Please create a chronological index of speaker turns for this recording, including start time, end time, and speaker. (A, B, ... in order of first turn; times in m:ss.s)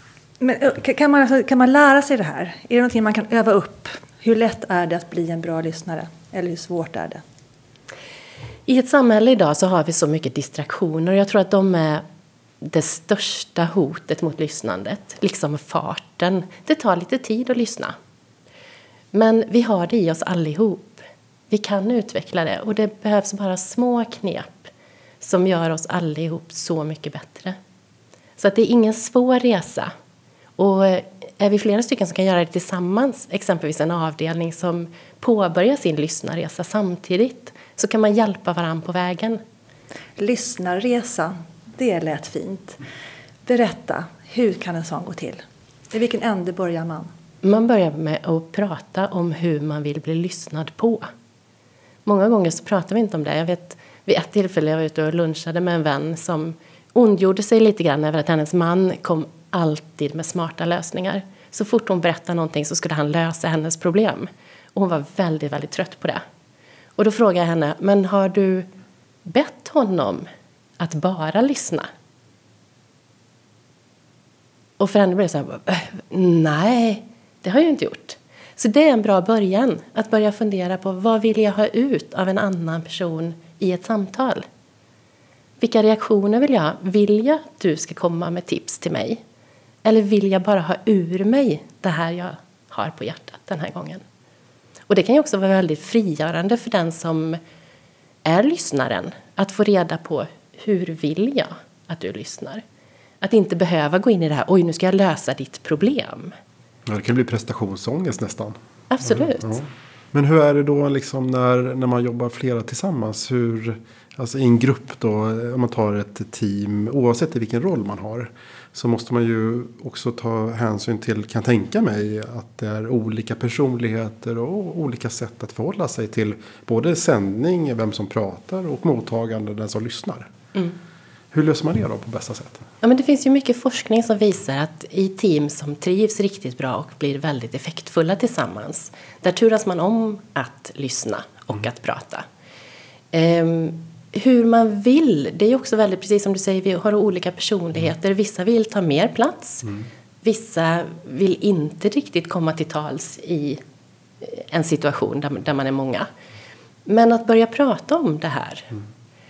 0:00.4-0:07.2 A
0:08.7-0:12.0 B
0:12.6-0:17.9 B
0:19.1-0:27.6 B
0:28.4-0:29.9 B
0:30.6-0:39.4 B
0:40.2-0:42.8 A
0:43.4-0:47.1 A
0:47.4-0:51.1 B
0:52.0-1:06.2 B
1:07.0-1:08.7 B
1:09.2-1:10.3 B
1:10.8-1:11.9 B
1:14.8-1:24.4 B
1:25.6-1:29.2 B
1:29.8-1:34.0 B
1:34.9-1:37.4 B
1:38.2-1:42.6 B
1:43.2-1:46.3 B
1:46.8-2:10.3 C
1:48.9-1:49.6 B
2:11.3-2:12.6 C
2:12.8-2:22.2 B
2:23.1-2:29.7 B
2:30.2-2:33.6 B
2:34.2-2:36.1 B
2:36.8-2:38.7 B